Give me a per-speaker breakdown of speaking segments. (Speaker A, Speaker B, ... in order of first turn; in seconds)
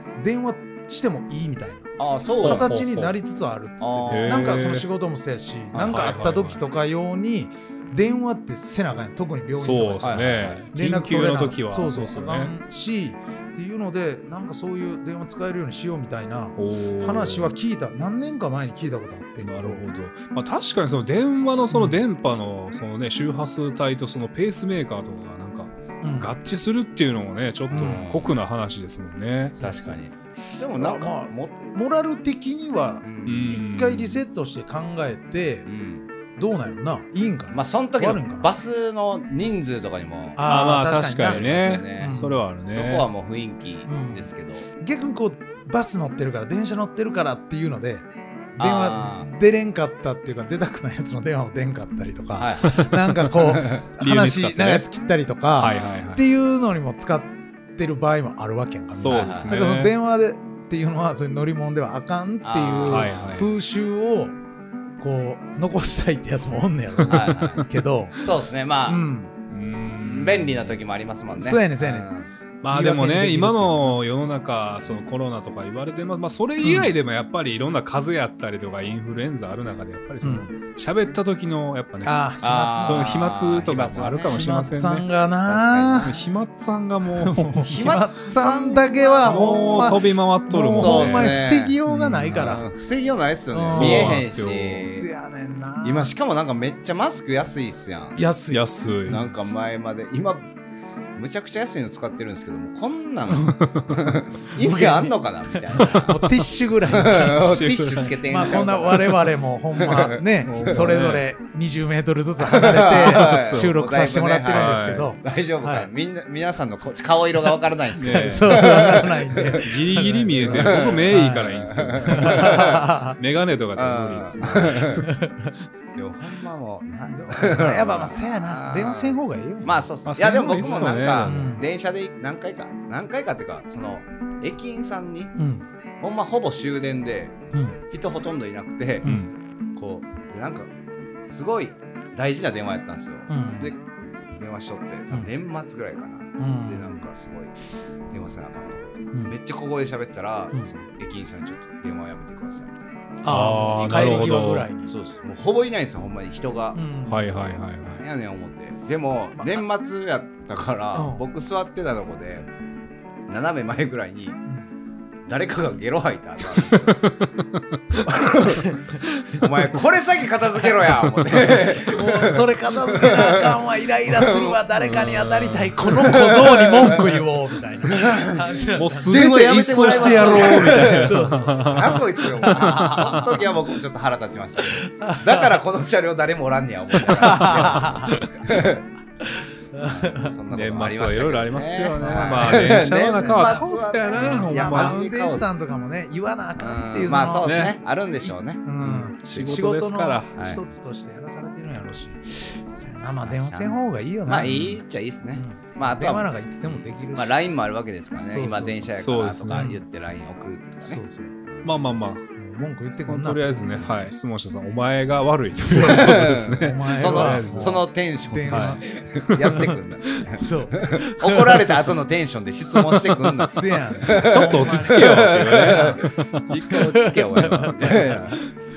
Speaker A: 0.1-19.8, 21.7-22.0, 26.0-26.3, 27.7-28.1, 29.6-29.9, 30.7-35.7, 36.4-38.5, 40.4-42.4, 43.9-64.3, 65.0-68.2, 68.8-69.3, 71.3-72.1, 72.7-74.0, 76.6-76.9, 80.2-80.5, 82.0-83.2, 84.3-86.1, 87.1-92.6, 93.5-94.2, 94.8-96.1, 98.2-99.3, 103.3-103.6, 104.5-107.7, 108.2-115.9, 118.0-121.5, 122.0-123.2, 124.9-125.5, 127.0-131.6, 135.3-135.6, 137.5-137.8, 139.0-139.3, 143.3-143.7, 146.4-147.0, 153.2-154.9, 156.7-157.3, 159.3-159.6, 160.9-161.2, 168.1-169.4, 171.8-183.4, 184.7-185.5, 187.0-188.2, 189.3-190.3, 192.0-204.8, 205.3-207.4, 208.2-209.0, 209.5-209.8, 210.8-211.3, 212.3-214.0, 215.5-218.8, 219.4-219.8, 220.3-221.7, 223.1-226.0, 226.7-228.2
Speaker B: 2.0-2.8, 3.8-4.5, 5.7-6.1, 10.0-10.6, 27.7-28.3, 29.6-31.7, 33.0-33.5, 35.7-36.0, 37.5-40.4, 41.2-44.7, 48.6-49.3, 52.4-53.9, 59.0-59.5, 62.4-63.2, 67.1-67.7, 68.2-69.0, 70.0-72.3, 82.4-84.5, 85.5-86.2, 87.7-90.0, 90.7-91.8, 92.3-95.1, 95.8-98.2, 99.1-100.5, 101.2-106.3, 106.9-110.9, 112.4-122.9, 123.7-125.1, 125.9-135.3, 136.0-137.3, 137.9-139.1, 139.8-140.7, 141.2-143.8, 144.4-152.8, 153.8-154.3, 154.9-156.8, 157.8-162.5, 163.3-164.4, 165.3-167.1, 168.1-168.7, 169.4-174.7, 176.0-177.1, 177.8-178.5, 179.1-188.8, 189.8-195.5, 196.6-199.1, 200.3-200.6, 203.2-211.9, 215.7-228.4
Speaker C: 2.4-3.1, 4.1-4.8, 5.8-6.6, 9.6-12.5, 16.6-17.5, 19.4-29.9, 33.2-34.2, 40.5-43.1, 54.0-54.9, 55.5-56.2, 58.9-59.9, 62.9-63.5, 67.1-67.6, 69.5-70.8, 72.6-82.1, 82.8-85.0, 86.0-87.8, 89.2-92.6, 93.7-94.9, 98.5-99.2, 107.4-108.2, 110.5-111.2, 112.7-113.8, 114.5-115.1, 118.0-118.9, 119.6-125.0, 130.1-131.6, 139.0-139.3, 153.3-154.7, 157.1-158.0, 166.7-168.0, 174.8-176.2, 178.8-183.2, 187.1-188.3, 190.5-195.0, 197.4-197.7, 198.9-200.5, 209.0-209.7, 211.6-212.2, 213.1-217.9, 218.4-220.2, 224.0-226.5, 227.5-228.5